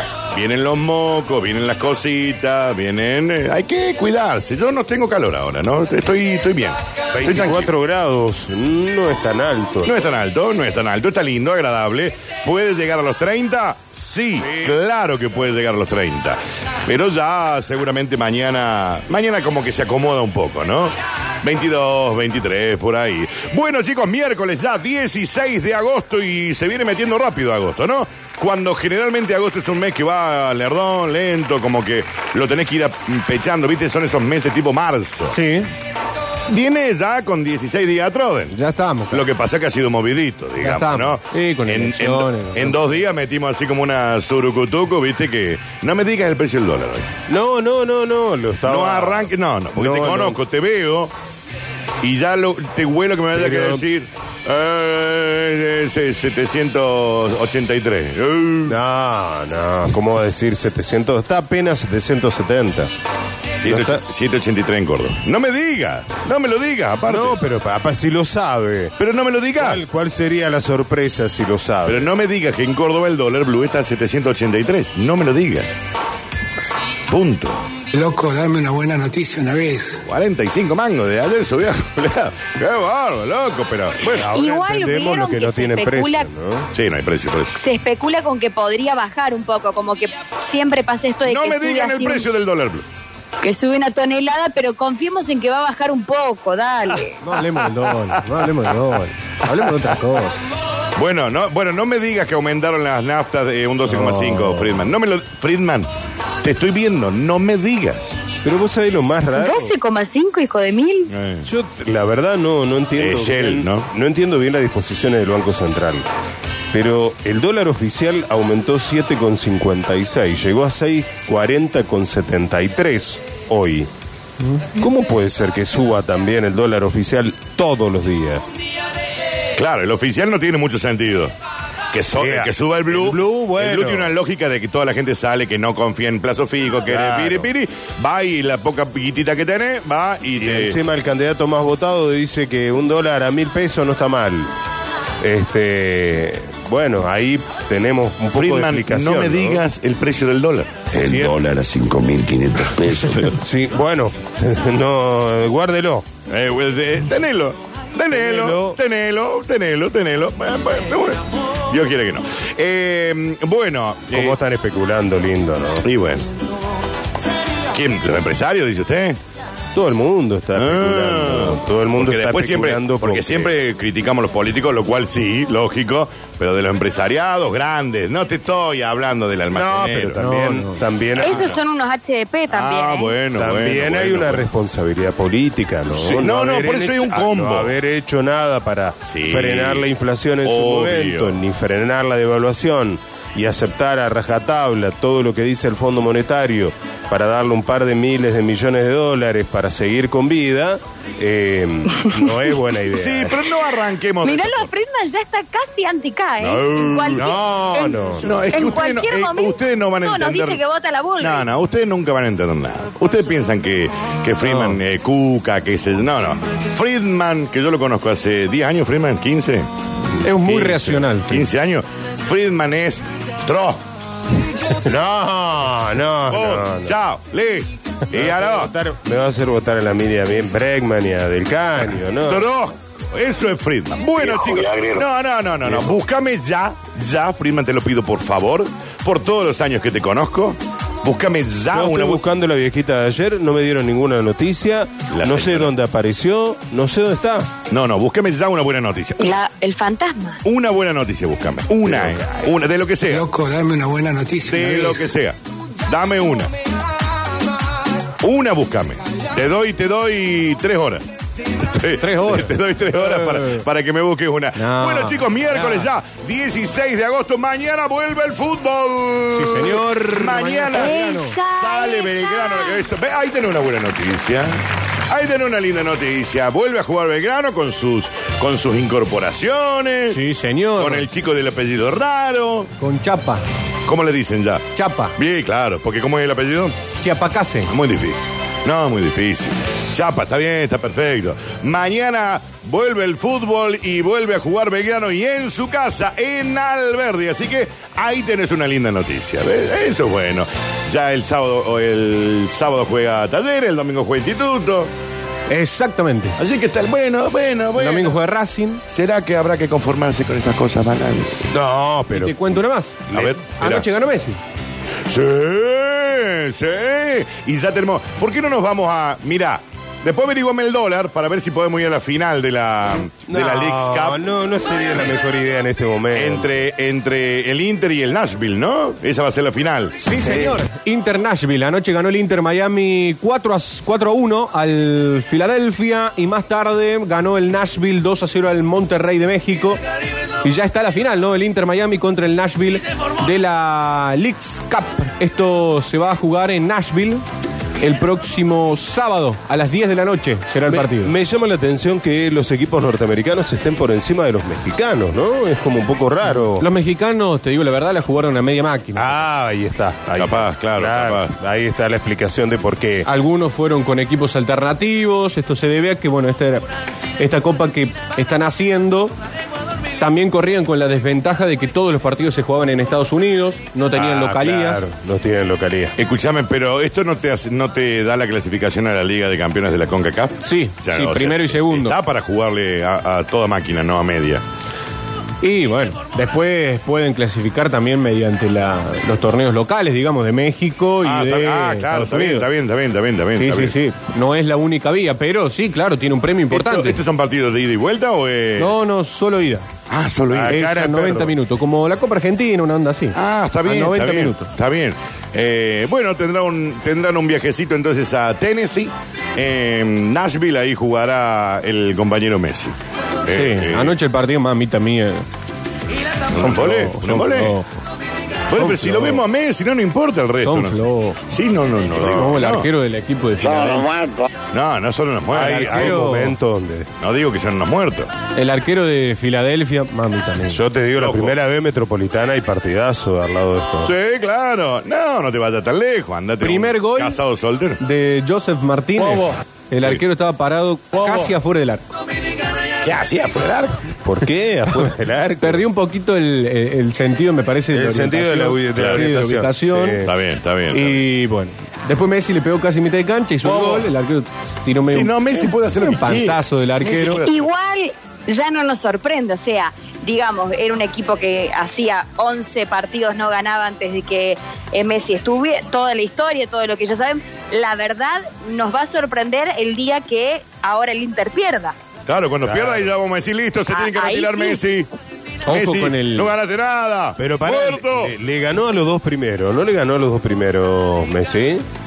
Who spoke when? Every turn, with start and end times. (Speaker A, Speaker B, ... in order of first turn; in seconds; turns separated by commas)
Speaker A: 0.3-7.7, Speaker B: 7.1-9.9, Speaker A: 9.8-35.4, Speaker B: 14.4-14.8, Speaker C: 35.3-35.7, Speaker A: 36.5-38.5, Speaker C: 38.5-39.2, Speaker A: 39.1-47.1, Speaker C: 40.6-43.0, Speaker B: 47.3-50.4, Speaker A: 48.6-51.1, Speaker A: 52.0-58.8, Speaker B: 53.3-53.8, Speaker B: 58.7-62.9, Speaker A: 63.5-67.4, Speaker B: 63.6-64.0, Speaker B: 67.0-68.9, Speaker A: 69.0-69.8, Speaker B: 69.6-72.1, Speaker A: 71.8-75.7, Speaker A: 77.1-77.7, Speaker D: 77.9-80.0, Speaker A: 80.0-84.3, Speaker B: 84.1-86.7, Speaker E: 84.3-86.3, Speaker A: 86.7-87.6, Speaker E: 87.6-92.3, Speaker A: 91.2-92.8, Speaker E: 93.4-97.2, Speaker C: 97.2-100.3, Speaker A: 101.0-105.9, Speaker C: 103.9-104.8, Speaker A: 106.4-108.2, Speaker B: 108.4-109.7, Speaker E: 109.4-111.1, Speaker A: 111.1-111.4, Speaker B: 111.5-116.1, Speaker A: 113.0-113.9, Speaker B: 116.7-123.9, Speaker B: 124.8-128.4, Speaker A: 129.5-131.3, Speaker A: 131.9-140.8, Speaker B: 132.2-134.1, Speaker B: 136.9-137.5, Speaker B: 140.4-144.5, Speaker B: 145.2-149.6, Speaker A: 148.3-150.8, Speaker F: 150.9-153.2, Speaker B: 151.0-151.3, Speaker A: 152.9-153.3, Speaker B: 153.2-156.1, Speaker A: 156.3-164.4, Speaker B: 158.1-158.8, Speaker B: 164.1-165.8, Speaker A: 165.8-166.3, Speaker A: 167.7-169.2, Speaker B: 169.7-173.5, Speaker A: 170.5-180.2, Speaker B: 179.5-181.5, Speaker C: 180.2-180.8, Speaker E: 181.2-183.1, Speaker A: 181.2-181.6, Speaker A: 182.5-184.5, Speaker B: 183.3-203.3, Speaker A: 186.1-187.7, Speaker A: 189.0-189.9, Speaker A: 190.4-191.4, Speaker A: 202.9-204.7, Speaker E: 204.2-208.0, Speaker A: 206.4-207.3, Speaker B: 207.1-208.3, Speaker A: 208.2-210.6, Speaker E: 208.5-211.5, Speaker A: 211.2-219.7, Speaker C: 214.4-214.8, Speaker C: 220.2-221.5, Speaker B: 220.3-221.1, Speaker A: 221.3-223.8, Speaker B: 224.8-226.9, Speaker A: 226.3-228.7, Speaker B: 228.1-232.5, Speaker A: 232.2-242.3, Speaker B: 241.7-247.5, Speaker A: 245.1-245.7, Speaker A: 247.7-249.3, Speaker E: 249.2-250.4, Speaker A: 250.4-253.2, Speaker B: 251.9-252.3, Speaker D: 253.1-255.1, Speaker A: 254.4-256.5, Speaker A: 258.2-261.0, Speaker A: 261.6-280.2, Speaker C: 262.0-263.6, Speaker C: 264.6-265.9, Speaker C: 269.3-271.4, Speaker E: 270.7-272.9, Speaker C: 280.1-281.1, Speaker A: 280.8-282.7, Speaker C: 282.8-283.4, Speaker A: 283.9-286.8, Speaker C: 284.7-285.1, Speaker C: 286.9-287.7, Speaker A: 287.6-304.9, Speaker C: 305.5-306.4, Speaker A: 306.4-308.2, Speaker C: 307.8-308.8, Speaker A: 308.9-311.5, Speaker B: 311.5-312.4, Speaker C: 312.1-314.4, Speaker A: 313.1-313.8, Speaker A: 315.1-324.3, Speaker B: 323.3-326.5, Speaker A: 326.1-330.0, Speaker C: 330.0-339.8, Speaker B: 330.2-330.6, Speaker C: 340.4-347.2, Speaker C: 347.8-351.1, Speaker B: 350.6-356.6, Speaker C: 356.3-359.2, Speaker B: 358.9-363.1, Speaker A: 360.1-361.3, Speaker C: 363.0-366.6, Speaker C: 367.2-369.1, Speaker C: 370.0-374.8, Speaker B: 373.9-375.9, Speaker A: 376.0-384.4, Speaker C: 380.4-382.0, Speaker C: 385.4-392.5, Speaker A: 391.0-393.7, Speaker C: 393.4-397.0, Speaker A: 396.5-398.8, Speaker C: 398.6-399.7, Speaker A: 399.9-400.6, Speaker B: 400.3-401.3, Speaker C: 400.5-404.5, Speaker A: 403.1-413.9, Speaker C: 413.3-415.2, Speaker A: 416.3-417.6, Speaker C: 416.4-417.7, Speaker A: 418.5-422.7, Speaker C: 418.6-419.2, Speaker C: 420.4-421.2, Speaker C: 422.0-424.0, Speaker A: 424.5-426.0, Speaker B: 425.3-426.9, Speaker C: 425.6-426.4, Speaker A: 427.0-428.1, Speaker C: 428.4-430.6, Speaker B: 430.5-433.9, Speaker A: 430.9-431.4, Speaker A: 433.8-437.8, Speaker C: 436.4-437.2, Speaker C: 437.8-441.8, Speaker B: 439.0-439.3, Speaker B: 441.0-441.2, Speaker A: 442.8-443.8, Speaker B: 444.0-445.6, Speaker C: 445.4-450.0, Speaker B: 447.7-450.1, Speaker A: 448.7-449.0, Speaker A: 450.0-451.0, Speaker C: 450.7-455.2, Speaker B: 453.4-453.8, Speaker A: 454.9-457.4, Speaker C: 455.7-457.2, Speaker E: 457.2-471.7, Speaker A: 472.1-474.9, Speaker B: 472.4-472.9, Speaker E: 473.7-474.6, Speaker C: 475.4-476.3, Speaker A: 475.5-478.1, Speaker B: 477.2-481.6